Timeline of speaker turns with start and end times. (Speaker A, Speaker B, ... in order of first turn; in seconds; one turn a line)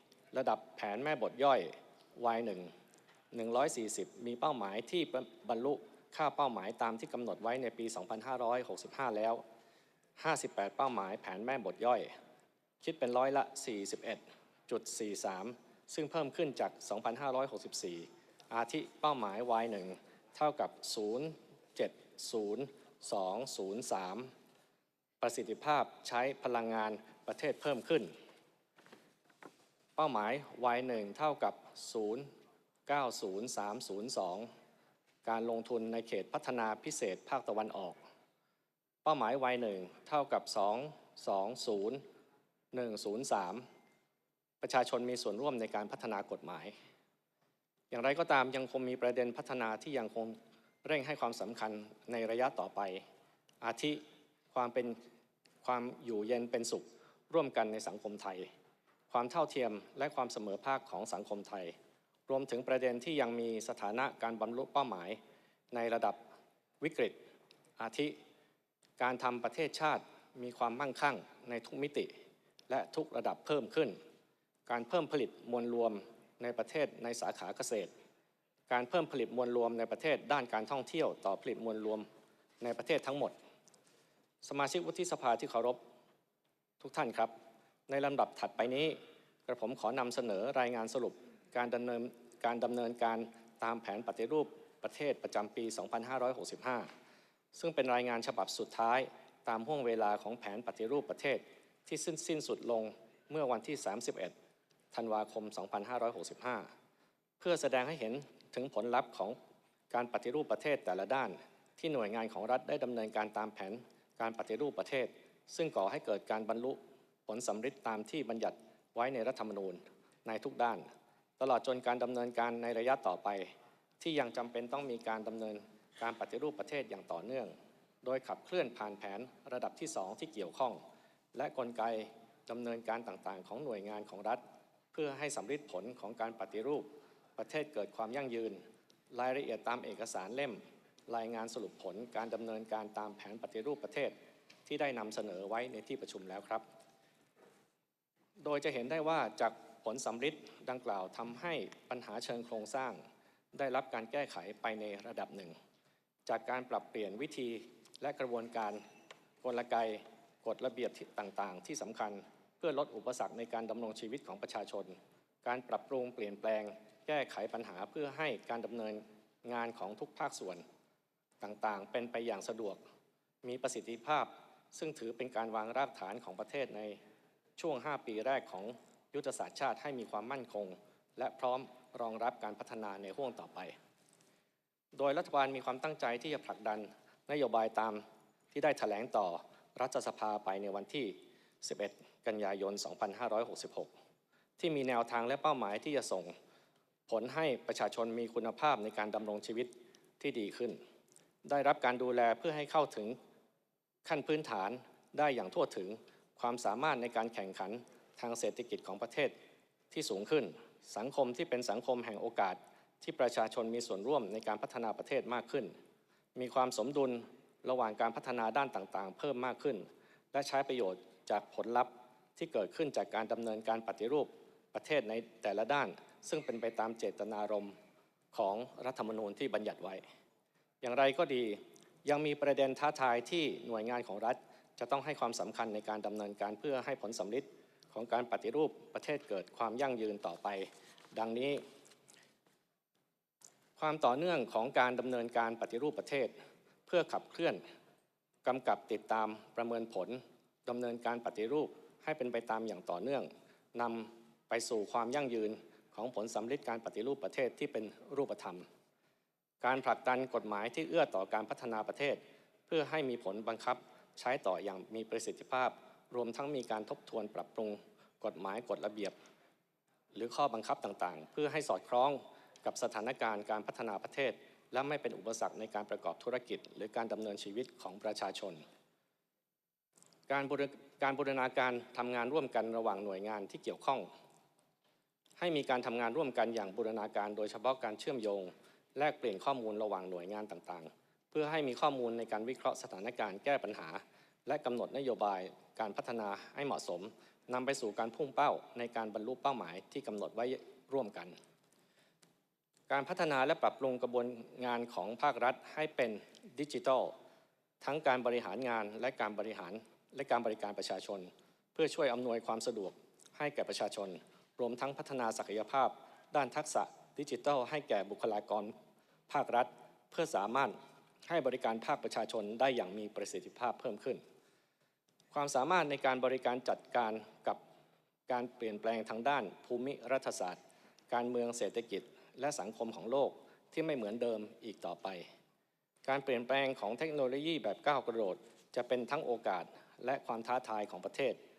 Speaker A: 0.3-2.7
Speaker A: 3.3-9.4
Speaker A: 10.2-12.1
Speaker A: 12.8-24.3
Speaker A: 25.2-28.1
Speaker A: 30.0-32.3
Speaker A: 32.9-34.5
Speaker A: 35.2-38.0
Speaker A: 39.0-42.0
Speaker A: 42.7-43.6
Speaker A: 44.6-46.7
Speaker A: 47.9-53.0
Speaker A: 53.6-55.0
Speaker A: 55.6-58.5
Speaker A: 59.1-61.7
Speaker A: 62.3-65.2
Speaker A: 65.7-66.2
Speaker A: 66.8-67.2
Speaker A: 67.8-68.2
Speaker A: 69.0-72.1
Speaker A: 72.7-74.0
Speaker A: 74.7-77.9
Speaker A: 78.7-82.0
Speaker A: 82.6-83.3
Speaker A: 84.4-85.8
Speaker A: 86.8-87.3
Speaker A: 87.9-96.9
Speaker A: 97.5-104.3
Speaker A: 104.9-106.7
Speaker A: 107.4-109.4
Speaker A: 109.9-120.8
Speaker A: 121.4-130.8
Speaker A: 131.3-134.4
Speaker A: 134.9-144.1
Speaker A: 144.7-146.6
Speaker A: 148.4-153.0
Speaker A: 153.5-155.5
Speaker A: 156.3-158.8
Speaker A: 159.4-170.6
Speaker A: 171.4-172.8
Speaker A: 173.4-177.0
Speaker A: 177.6-183.7
Speaker A: 184.9-193.9
Speaker A: 194.6-196.3
Speaker A: 197.1-200.8
Speaker A: 201.4-203.2
Speaker A: 204.0-209.3
Speaker A: 209.9-215.7
Speaker A: 216.3-227.7
Speaker A: 228.3-230.0
Speaker A: 230.8-241.6
Speaker A: 243.8-246.3
Speaker A: 246.9-247.6
Speaker A: 248.4-258.6
Speaker A: 259.6-269.1
Speaker A: 270.1-278.6
Speaker A: 280.3-284.1
Speaker A: 285.4-301.3
Speaker A: 302.9-307.1
Speaker A: 307.8-318.7
Speaker A: 319.3-320.8
Speaker A: 321.3-324.2
Speaker A: 325.3-327.6
Speaker A: 328.3-330.6
Speaker A: 331.1-335.2
Speaker A: 336.0-341.4